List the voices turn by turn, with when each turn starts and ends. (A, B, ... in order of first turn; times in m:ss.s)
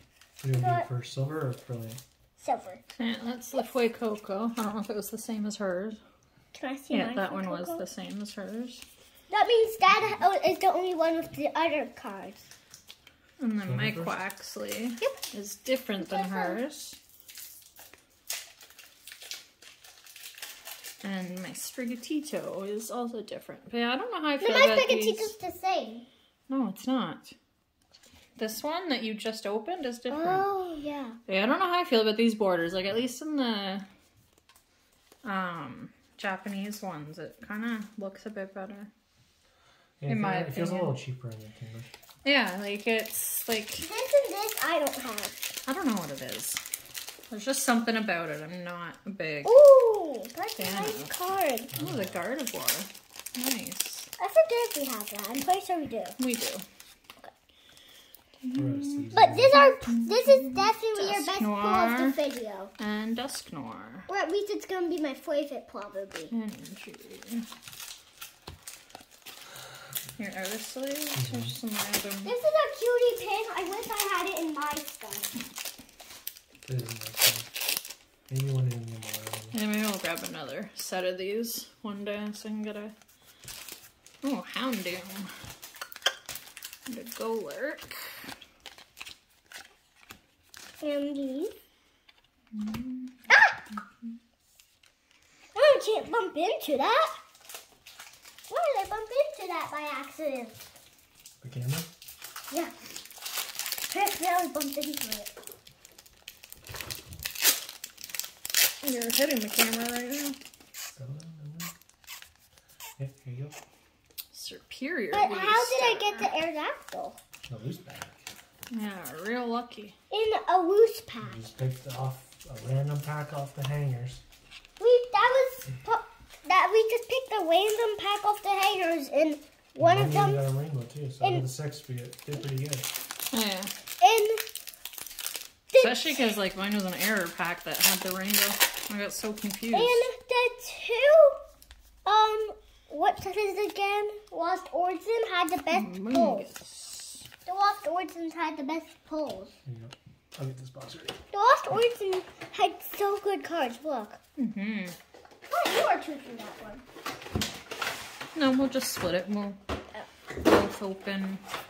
0:00.4-0:02.0 A
0:00.5-0:00.9 B
0:02.4-0:02.8 B
0:03.0-0:06.0 C
0:06.5-0:07.8 B
0:06.9-0:08.8 C
0:09.3-0:12.5 B
0:13.4-0:17.0 C
0:13.7-0:14.2 A
0:16.0-0:16.6 B
0:21.0-0:25.3 C
0:24.4-0:26.1 B
0:26.5-0:27.3 C
0:28.4-0:30.5 C
0:30.1-0:31.2 B
0:31.3-0:33.9 C
0:35.2-0:38.9 C
0:40.0-0:41.9 A
0:40.1-0:41.0 C
0:42.2-0:43.9 C
0:43.8-0:45.4 B
0:45.7-0:46.6 C
0:47.3-0:49.6 C
0:49.4-0:51.7 B
0:50.6-0:51.1 C
0:51.7-0:52.2 A
0:51.7-0:54.1 C
0:54.2-0:56.2 B
0:56.2-0:56.6 C
0:58.4-1:02.2 C
0:58.6-0:59.6 A
0:59.1-1:02.7 B
1:02.8-1:04.1 C
1:04.1-1:06.3 B
1:06.3-1:07.5 C
1:10.2-1:12.3 C
1:11.2-1:11.5 A
1:12.2-1:15.3 B
1:16.7-1:17.5 A
1:18.3-1:19.6 A
1:19.5-1:22.9 C
1:24.2-1:25.3 C
1:26.9-1:28.3 C
1:30.8-1:31.5 B
1:32.5-1:33.2 C
1:33.3-1:33.6 B
1:35.5-1:37.1 B
1:38.5-1:40.6 B
1:41.4-1:41.9 A
1:43.9-1:45.3 B
1:48.8-1:50.4 C
1:51.0-1:51.7 A
1:53.0-1:53.6 A
1:54.3-1:56.4 C
1:55.1-1:57.2 B
1:57.5-1:58.2 A
1:58.7-1:59.9 C
2:00.1-2:01.4 B
2:01.2-2:04.2 A
2:04.8-2:10.4 B
2:09.8-2:12.9 A
2:13.3-2:13.7 C
2:14.0-2:14.4 B
2:15.7-2:16.3 B
2:15.8-2:20.0 C
2:19.7-2:21.4 B
2:22.0-2:26.5 B
2:25.7-2:27.2 C
2:27.5-2:29.5 B
2:29.7-2:31.2 A
2:31.3-2:34.2 B
2:34.4-2:35.0 C
2:35.5-2:36.8 B
2:38.4-2:39.6 C
2:40.4-2:41.4 C